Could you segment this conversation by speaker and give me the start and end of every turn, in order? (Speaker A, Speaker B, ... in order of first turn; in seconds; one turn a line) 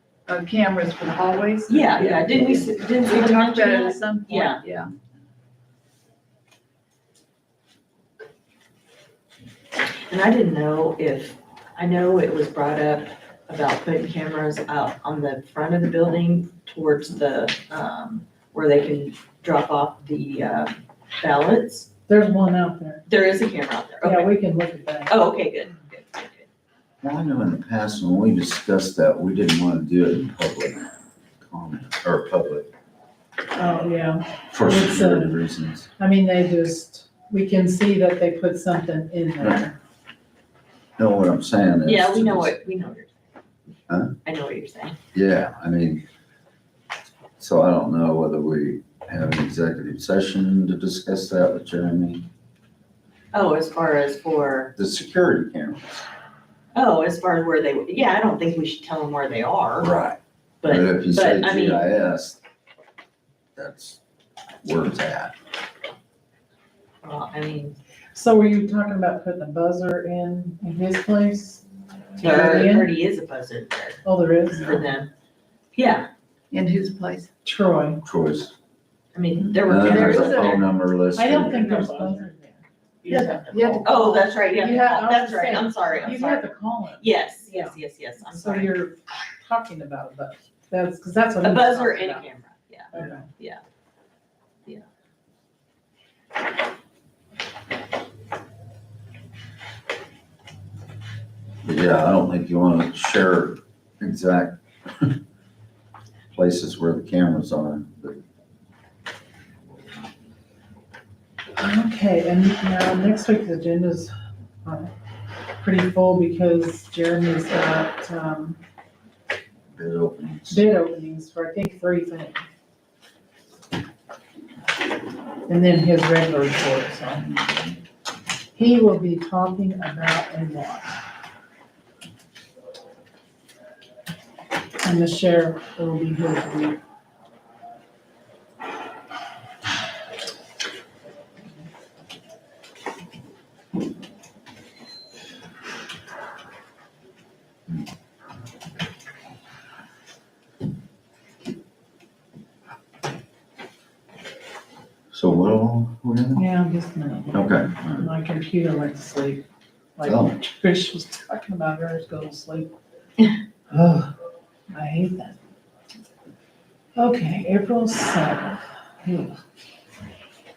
Speaker A: 0.3-4.9
Speaker B: 1.7-4.6
Speaker B: 10.1-21.9
Speaker C: 22.1-23.1
Speaker B: 23.1-24.4
Speaker C: 24.0-25.2
Speaker B: 25.1-26.5
Speaker D: 27.0-32.7
Speaker C: 33.5-35.4
Speaker D: 34.5-35.9
Speaker C: 36.0-39.8
Speaker D: 41.0-42.5
Speaker B: 41.8-43.1
Speaker D: 43.9-44.1
Speaker B: 44.2-45.0
Speaker D: 45.1-46.0
Speaker D: 47.4-52.2
Speaker B: 53.3-54.7
Speaker D: 54.8-56.1
Speaker B: 56.7-59.9
Speaker D: 59.8-62.4
Speaker B: 60.6-61.9
Speaker D: 63.5-64.0
Speaker D: 64.6-65.3
Speaker B: 67.0-67.8
Speaker C: 68.1-71.6
Speaker C: 72.2-72.9
Speaker B: 72.2-75.1
Speaker C: 74.0-74.9
Speaker D: 74.5-74.8
Speaker B: 75.7-76.1
Speaker A: 76.5-77.3
Speaker C: 77.4-78.0
Speaker D: 78.0-78.5
Speaker B: 79.1-80.6
Speaker D: 79.7-82.1
Speaker C: 79.7-80.6
Speaker C: 81.1-87.7
Speaker A: 83.1-84.3
Speaker B: 83.8-88.7
Speaker C: 88.3-92.2
Speaker B: 91.4-93.6
Speaker C: 92.9-93.3
Speaker D: 101.6-105.2
Speaker D: 106.3-108.2
Speaker C: 111.6-114.1
Speaker C: 114.6-114.9
Speaker C: 115.6-118.6
Speaker D: 119.7-120.7
Speaker C: 120.5-122.5
Speaker C: 125.5-127.2
Speaker D: 127.1-127.8
Speaker C: 128.5-130.9
Speaker C: 134.8-136.8
Speaker D: 155.1-156.4
Speaker C: 156.3-159.4
Speaker D: 157.3-158.1
Speaker C: 160.0-162.7
Speaker D: 160.0-160.4
Speaker C: 163.7-164.1
Speaker C: 164.7-165.3
Speaker C: 166.9-169.4